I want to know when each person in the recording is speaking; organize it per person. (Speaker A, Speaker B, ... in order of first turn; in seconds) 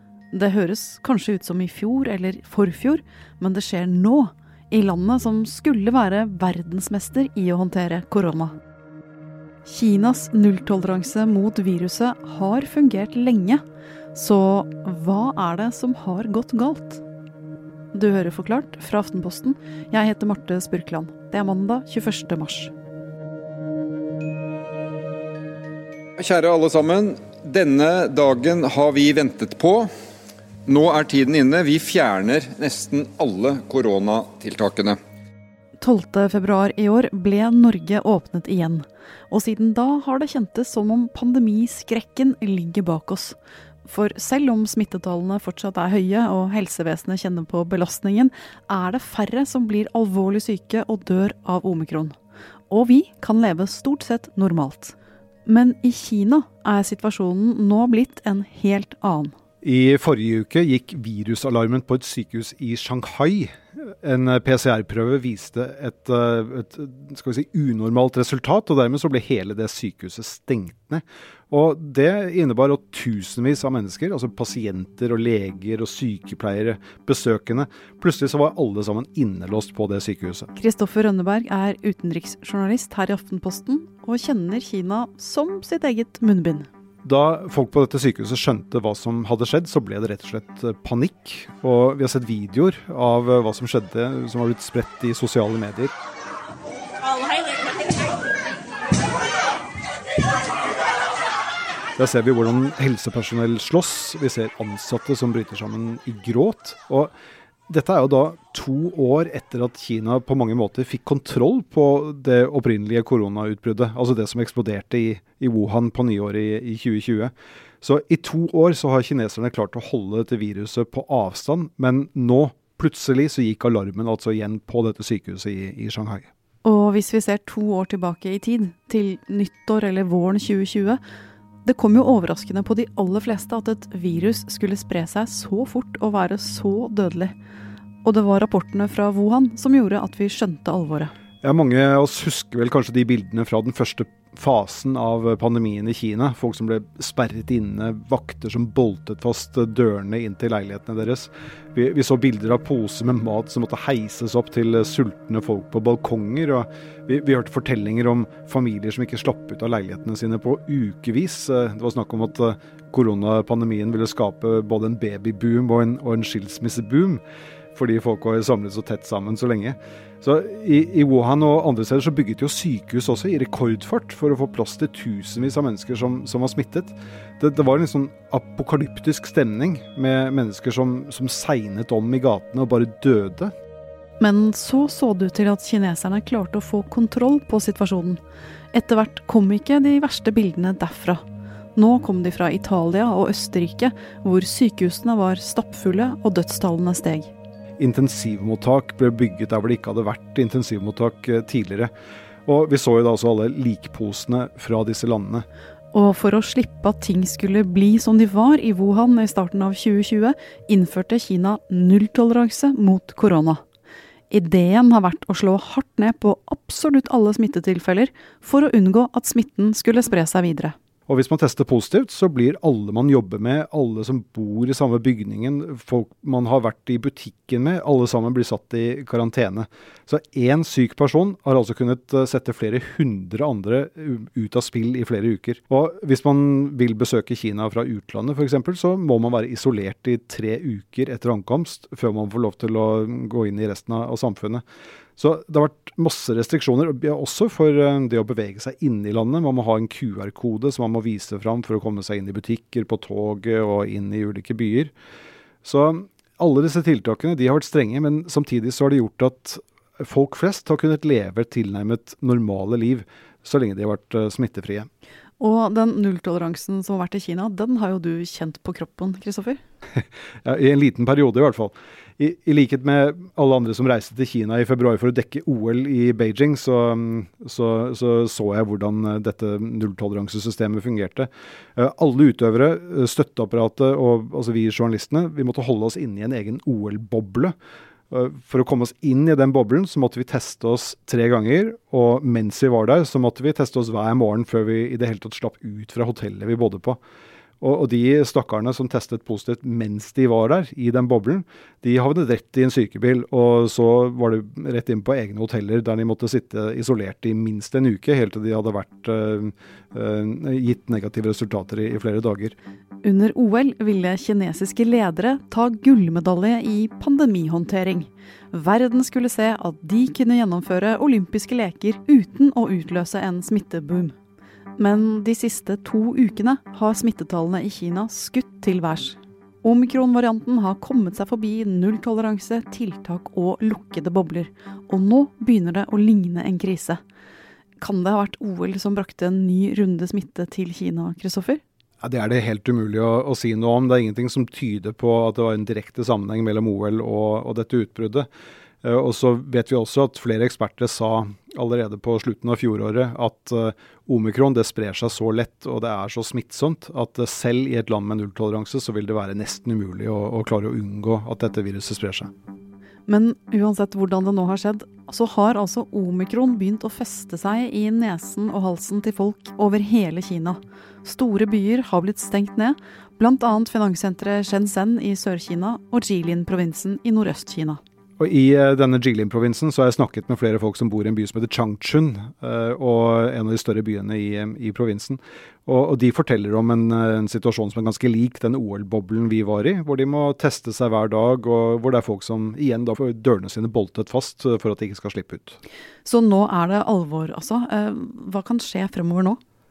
Speaker A: 0.3-8.6, 9.7-13.6, 14.1-17.0, 17.9-22.7, 35.8-52.1, 52.7-55.0, 55.5-59.3, 80.6-86.7, 126.6-131.0, 131.7-137.3, 138.0-141.1, 184.2-188.2, 188.7-191.2, 191.8-197.3, 205.9-213.6, 214.3-220.8, 265.4-269.6, 313.0-324.1, 324.8-337.0, 337.8-341.6, 363.1-377.8, 396.1-399.4
Speaker B: 26.2-29.9, 30.7-35.0
Speaker C: 59.6-80.5, 87.0-95.9, 102.0-107.1, 107.7-126.3, 141.4-167.2, 167.8-183.5, 197.8-201.9, 202.5-205.5, 221.1-244.6, 245.2-254.9, 255.6-264.9, 270.0-287.5, 288.1-297.0, 297.6-312.6, 342.0-348.3, 348.8-362.3, 378.2-395.6